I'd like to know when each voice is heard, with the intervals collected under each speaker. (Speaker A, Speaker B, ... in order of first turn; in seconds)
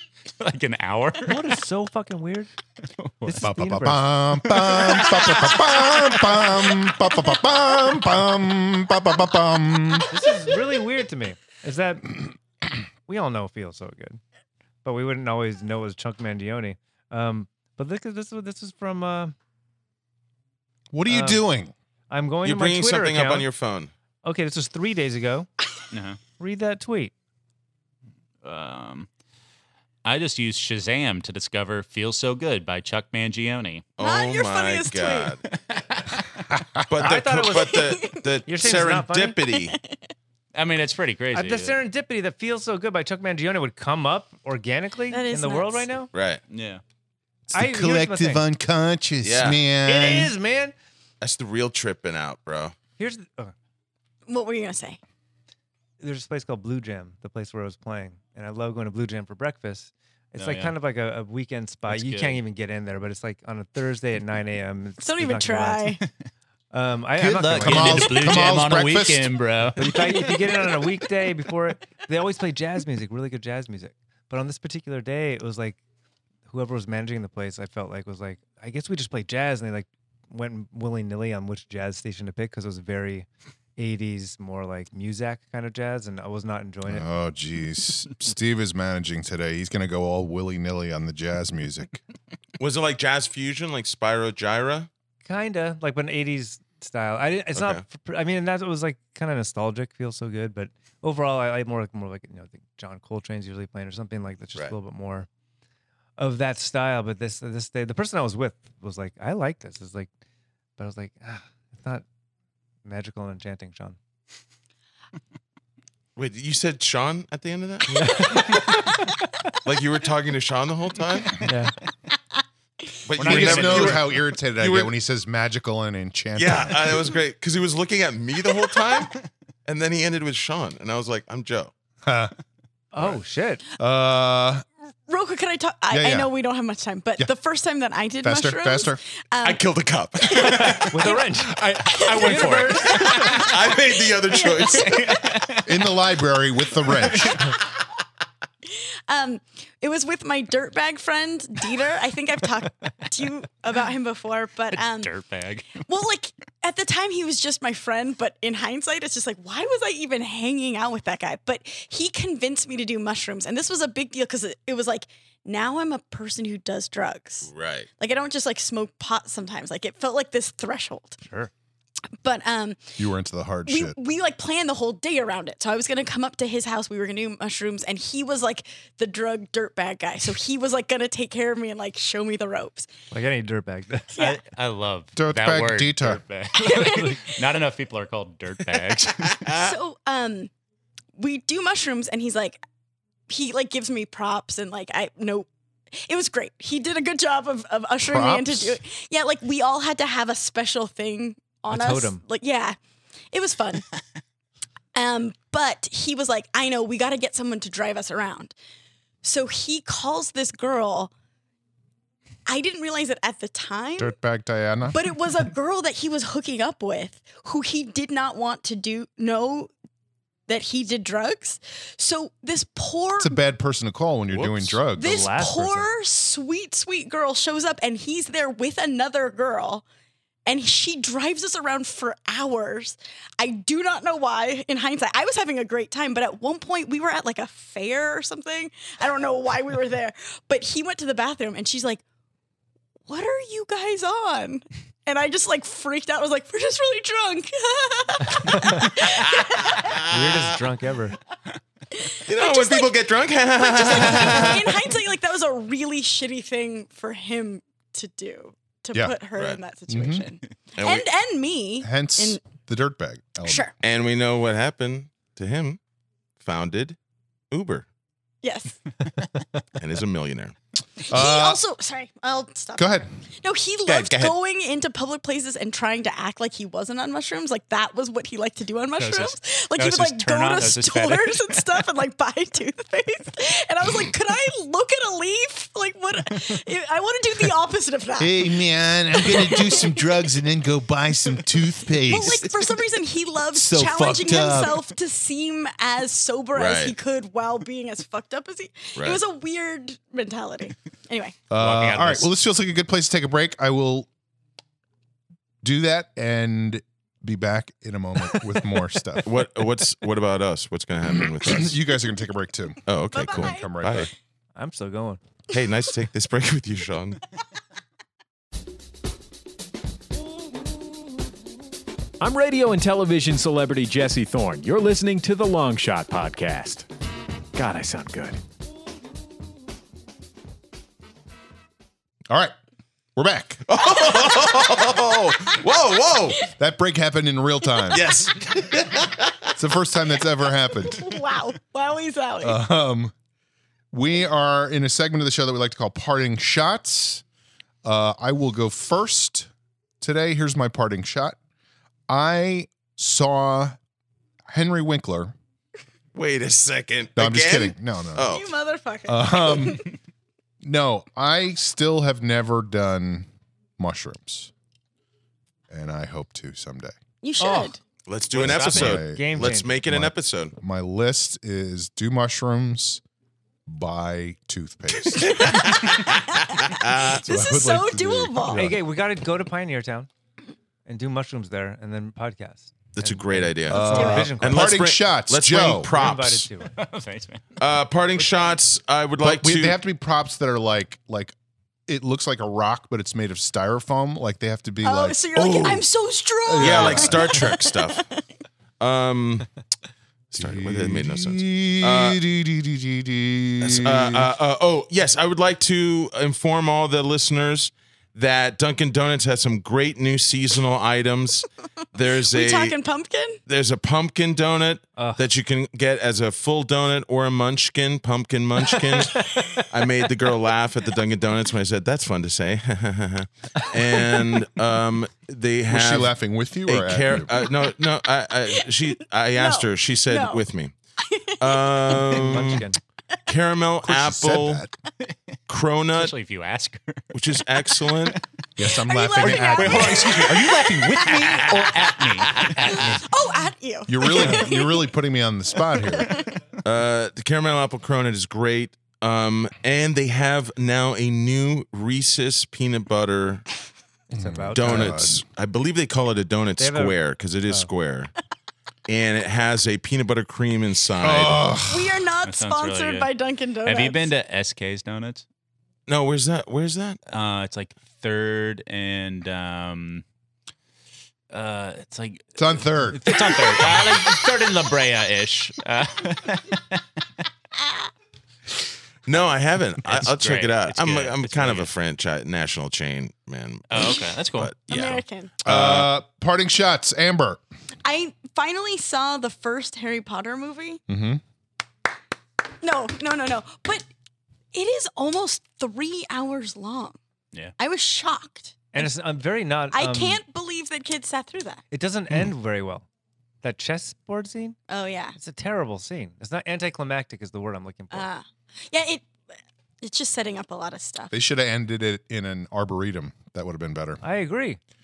Speaker A: 0.4-1.4, 3.0-3.4, 4.4-6.8, 25.9-26.2, 28.4-29.1, 30.1-33.9, 35.7-36.3, 40.5-41.8, 46.5-46.8, 60.4-60.7, 61.9-62.4, 67.3-70.3, 123.2-124.1, 140.6-143.7, 144.7-145.9, 154.7-155.9, 184.2-189.5, 279.0-281.8, 301.5-302.3, 368.3-369.0, 386.7-387.6, 435.9-438.2, 439.2-443.0, 462.2-463.1, 463.6-465.2, 467.1-470.1, 471.3-476.8, 479.8-481.7, 483.7-484.5
Speaker B: 1.3-2.5, 3.2-4.2, 10.1-12.3, 13.1-14.2, 14.8-19.3, 21.1-21.4, 22.1-23.5, 24.2-25.5, 26.4-27.1, 37.0-37.8, 38.5-39.4, 41.3-46.1, 47.5-48.5, 49.9-50.8, 53.0-53.5, 56.0-66.0, 66.7-68.4, 69.8-75.8, 76.5-83.3, 83.8-87.1, 95.2-105.3, 106.2-110.1, 110.8-112.0, 112.8-114.0, 118.0-118.6, 121.4-121.7, 132.9-133.6, 140.8-141.6, 142.2-143.3, 171.2-171.5, 183.1-184.2, 201.7-202.2, 225.0-225.9, 248.5-248.8, 250.1-251.2, 314.6-315.2, 367.4-367.7, 368.9-369.7, 378.5-380.1, 380.9-384.7, 385.9-386.8, 432.1-432.8, 454.1-455.0, 456.6-457.7, 498.7-500.2, 501.7-502.9, 503.4-504.6, 505.1-508.1, 514.0-514.6
Speaker C: 3.4-10.1, 20.9-21.7, 47.5-50.3, 67.2-69.3, 86.9-92.0, 123.2-127.2, 132.0-132.3, 133.8-134.7, 135.9-136.3, 138.2-139.0, 145.7-147.4, 173.0-174.0, 185.2-186.2, 198.0-198.8, 214.0-215.0, 223.2-225.3, 259.9-260.2, 261.8-263.7, 271.1-271.6, 272.8-273.1, 288.2-292.5, 293.5-294.8, 301.5-304.1, 305.6-309.3, 311.1-314.1, 332.3-332.6, 333.2-333.6, 336.6-338.1, 339.6-341.1, 342.4-343.1, 343.9-347.2, 347.8-349.5, 350.0-351.4, 352.1-353.8, 354.5-355.3, 357.2-358.3, 359.1-359.8, 360.6-363.3, 363.8-364.5, 365.7-366.9, 368.3-373.0, 373.7-375.7, 377.2-378.8, 383.7-385.9, 389.2-391.3, 391.9-395.2, 396.4-397.6, 400.4-404.3, 425.7-427.4, 433.8-434.7, 438.6-440.3, 443.9-446.2, 454.1-455.2, 461.0-462.0, 472.4-473.2, 485.4-487.4, 490.9-491.2, 511.1-514.0
Speaker D: 22.4-23.9, 34.0-35.4, 36.9-39.8, 46.1-46.4, 49.2-49.6, 51.2-52.8, 92.6-94.9, 97.5-97.8, 116.2-118.4, 119.6-121.4, 123.1-124.9, 126.4-129.2, 129.7-131.7, 139.4-140.9, 143.3-145.2, 167.5-167.9, 224.3-224.8, 249.9-250.4, 252.3-254.9, 260.8-261.1, 263.8-265.8, 266.4-267.0, 267.5-267.9, 269.8-270.6, 273.9-274.4, 296.6-296.9, 309.2-311.8, 312.9-314.1, 315.5-317.2, 333.7-336.4, 337.9-339.5, 356.1-358.5, 368.1-370.6, 375.2-377.2, 382.9-386.5, 387.6-389.8, 395.4-395.9, 396.6-398.0, 398.8-399.5, 400.3-402.2, 403.6-412.8, 413.5-426.1, 426.7-430.7, 431.4-432.7, 433.3-434.6, 435.5-436.2, 437.1-438.2, 441.0-441.7, 442.3-442.8, 446.6-453.4, 454.5-458.1, 458.9-461.5, 465.9-467.0, 479.1-485.9
Speaker E: 34.0-35.3, 37.6-38.2, 39.5-40.1, 45.1-45.9, 54.3-55.0, 65.0-66.0, 135.1-139.6, 140.2-141.2, 141.9-143.5, 144.0-145.1, 149.1-155.1, 155.8-171.2, 172.2-173.0, 173.7-182.9, 186.6-187.5, 189.5-190.5, 191.2-192.6, 193.3-202.8, 203.3-203.8, 204.9-208.5, 209.2-211.1, 212.5-214.2, 214.9-219.7, 220.5-223.4, 224.9-229.8, 230.5-242.0, 243.1-250.0, 251.9-262.4, 263.4-263.7, 268.4-268.8, 271.1-288.5, 289.2-290.0, 292.1-301.4, 313.1-314.1, 334.0-334.9, 340.8-342.6, 358.2-359.9, 367.2-367.8, 375.2-378.7, 394.8-398.2, 412.3-413.4, 429.4-430.4, 431.0-432.3, 438.8-441.4, 442.7-444.9, 445.8-446.4, 461.6-464.1, 484.7-485.3, 487.8-490.8, 492.6-493.9, 494.5-497.0, 497.6-498.8, 499.7-501.6, 504.7-505.1, 507.9-509.1, 509.8-511.1
Speaker F: 322.2-326.9, 327.6-328.4